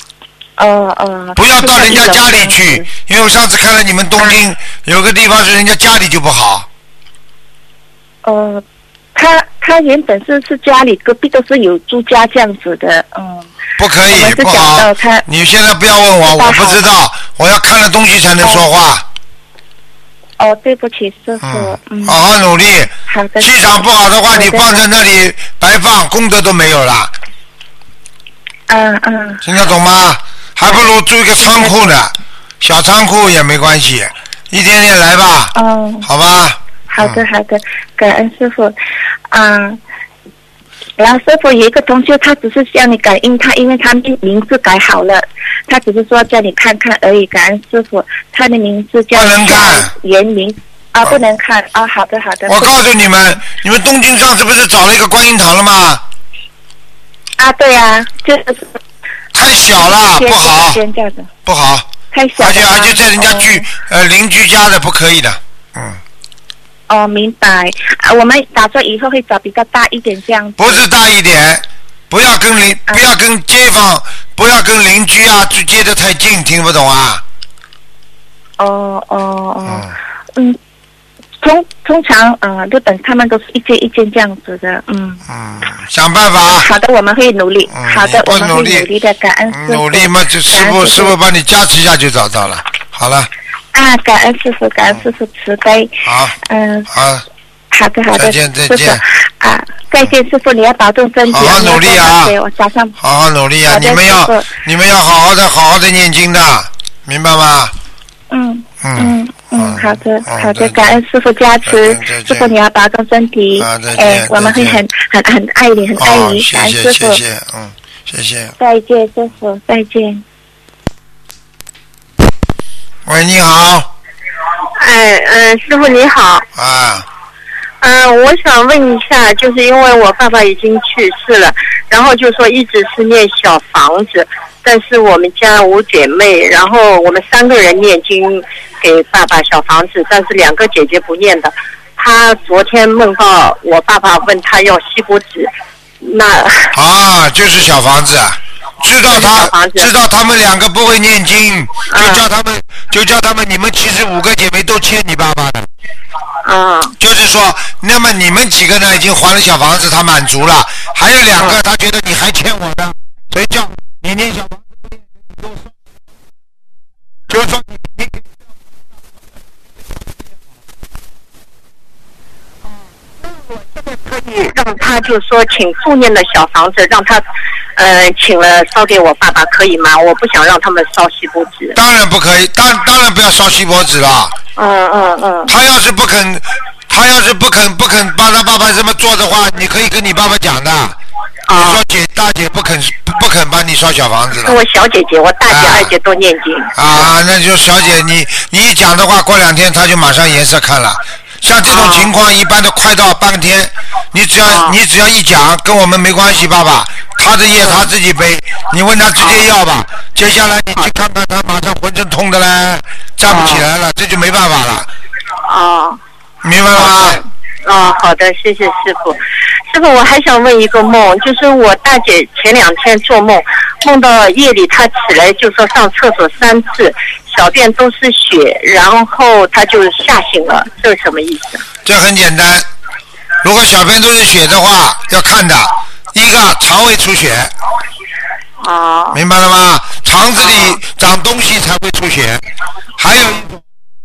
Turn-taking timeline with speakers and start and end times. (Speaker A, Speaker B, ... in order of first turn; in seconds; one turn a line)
Speaker A: 0.6-2.9
Speaker B: 1.4-6.7
Speaker A: 8.2-8.6
Speaker A: 9.1-13.5
Speaker B: 13.8-19.0
Speaker A: 14.0-15.2
Speaker A: 16.2-16.8
Speaker A: 20.4-22.2
Speaker B: 21.4-27.1
Speaker A: 23.1-23.8
Speaker A: 24.3-24.8
Speaker A: 28.7-29.4
Speaker B: 29.4-37.2
Speaker A: 31.4-31.8
Speaker A: 35.5-36.1
Speaker A: 36.9-38.8
Speaker A: 39.3-39.8
Speaker A: 41.0-52.8
Speaker B: 49.1-49.9
Speaker B: 52.5-56.0
Speaker A: 57.4-58.8
Speaker B: 59.3-60.8
Speaker A: 59.9-61.3
Speaker B: 61.5-66.0
Speaker A: 62.1-63.6
Speaker A: 66.9-70.8
Speaker B: 70.6-77.2
Speaker A: 78.6-80.6
Speaker A: 81.4-85.2
Speaker B: 85.3-86.7
Speaker A: 86.5-91.1
Speaker B: 87.7-88.9
Speaker B: 89.5-93.3
Speaker A: 93.7-96.9
Speaker B: 96.0-96.3
Speaker B: 96.9-97.2
Speaker A: 97.7-103.0
Speaker B: 98.1-99.0
Speaker B: 101.3-102.3
Speaker B: 103.0-107.7
Speaker A: 103.7-104.5
Speaker A: 108.3-117.2
Speaker B: 108.8-111.0
Speaker B: 111.7-112.5
Speaker B: 113.6-114.8
Speaker B: 116.0-118.5
Speaker A: 118.6-120.2
Speaker B: 123.0-123.9
Speaker C: 124.8-126.4
Speaker B: 126.5-127.0
Speaker C: 127.8-146.7
Speaker B: 146.7-155.7
Speaker C: 149.1-149.9
Speaker C: 151.9-152.2
Speaker C: 156.4-156.9
Speaker B: 157.0-165.6
Speaker B: 167.3-168.2
Speaker C: 174.1-177.2
Speaker C: 177.8-181.8
Speaker B: 181.7-184.3
Speaker C: 184.6-185.5
Speaker B: 185.5-191.0
Speaker C: 191.5-191.8
Speaker B: 191.6-194.6
Speaker C: 194.3-197.1
Speaker B: 195.5-195.9
Speaker B: 196.7-214.9
Speaker C: 201.6-202.1
Speaker C: 204.4-204.8
Speaker C: 209.2-209.4
Speaker C: 213.3-213.7
Speaker C: 215.4-216.0
Speaker B: 216.4-217.2
Speaker C: 216.7-219.2
Speaker C: 219.7-231.6
Speaker B: 231.8-232.6
Speaker B: 233.4-237.5
Speaker C: 238.6-239.2
Speaker B: 239.1-242.4
Speaker C: 240.3-240.8
Speaker B: 243.0-243.6